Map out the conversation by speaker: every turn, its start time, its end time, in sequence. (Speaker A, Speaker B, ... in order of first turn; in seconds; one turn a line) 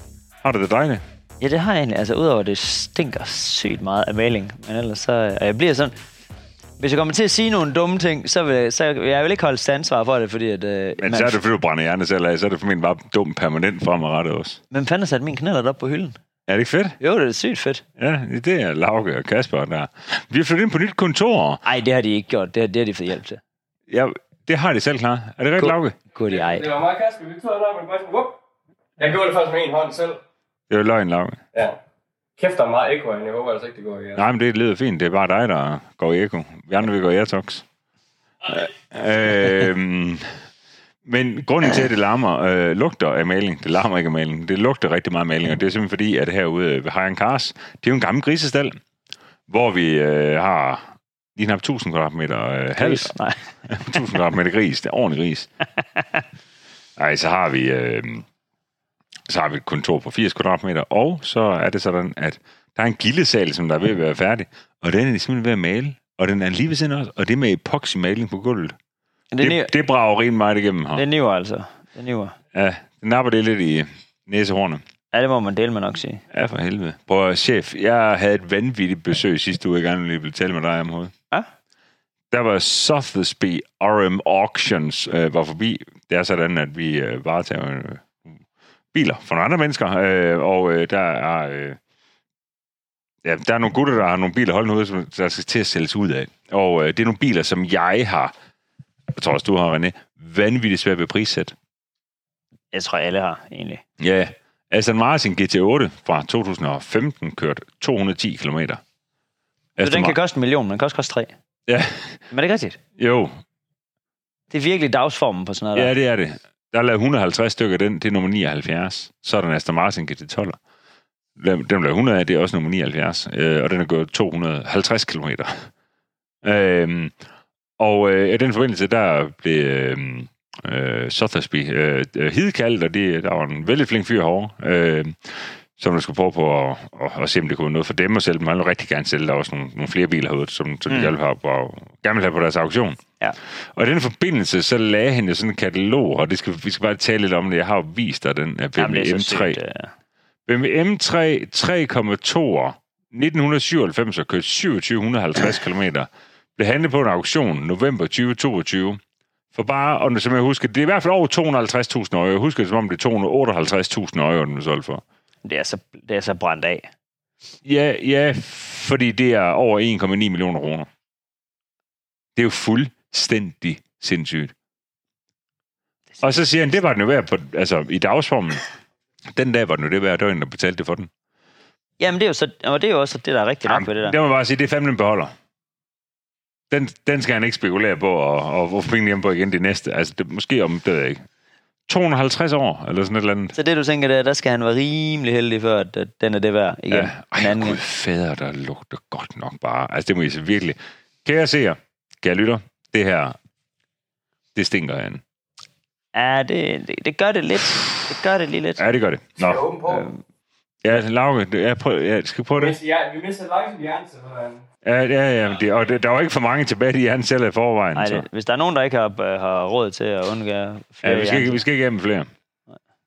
Speaker A: 0.4-1.0
Speaker B: 1.4-5.9
Speaker B: 6.8-11.4
Speaker A: 11.0-14.6
Speaker B: 14.7-16.1
Speaker A: 16.5-17.0
Speaker B: 17.0-17.8
Speaker A: 18.0-21.6
Speaker B: 21.6-23.4
Speaker A: 23.9-25.9
Speaker B: 25.6-26.7
Speaker C: 26.3-28.4
Speaker C: 29.0-30.2
Speaker A: 30.7-31.4
Speaker C: 32.4-34.2
Speaker A: 34.1-37.6
Speaker A: 38.4-40.3
Speaker A: 41.0-48.8
Speaker A: 49.5-53.1
Speaker B: 52.8-53.5
Speaker A: 53.7-55.5
Speaker A: 57.0-58.2
Speaker A: 59.3-68.8
Speaker B: 69.3-69.7
Speaker A: 69.4-71.0
Speaker B: 70.9-72.3
Speaker A: 72.5-74.8
Speaker B: 75.1-76.2
Speaker A: 76.3-81.1
Speaker A: 82.3-88.2
Speaker A: 88.9-91.8
Speaker A: 93.2-98.3
Speaker A: 99.1-101.5
Speaker B: 102.7-103.8
Speaker A: 104.0-108.8
Speaker A: 109.8-110.2
Speaker B: 109.8-111.3
Speaker A: 111.7-112.2
Speaker B: 112.3-112.8
Speaker A: 113.0-113.4
Speaker B: 114.5-115.9
Speaker A: 115.7-120.6
Speaker A: 121.4-125.5
Speaker A: 126.4-127.2
Speaker A: 127.8-143.0
Speaker B: 140.9-141.1
Speaker A: 143.7-149.6
Speaker B: 148.8-149.9
Speaker A: 150.4-159.0
Speaker A: 159.5-165.0
Speaker B: 165.4-166.9
Speaker A: 167.6-170.9
Speaker A: 172.3-174.5
Speaker A: 176.2-178.6
Speaker A: 179.3-181.1
Speaker B: 182.0-184.2
Speaker A: 183.7-185.3
Speaker A: 186.7-191.2
Speaker A: 191.9-193.5
Speaker B: 193.5-197.8
Speaker A: 196.9-203.3
Speaker A: 204.5-205.2
Speaker B: 206.1-208.8
Speaker A: 208.8-209.7
Speaker C: 209.4-210.1
Speaker B: 209.8-210.2
Speaker A: 210.8-212.8
Speaker C: 212.6-214.6
Speaker A: 214.8-218.2
Speaker B: 217.9-221.6
Speaker A: 221.0-222.3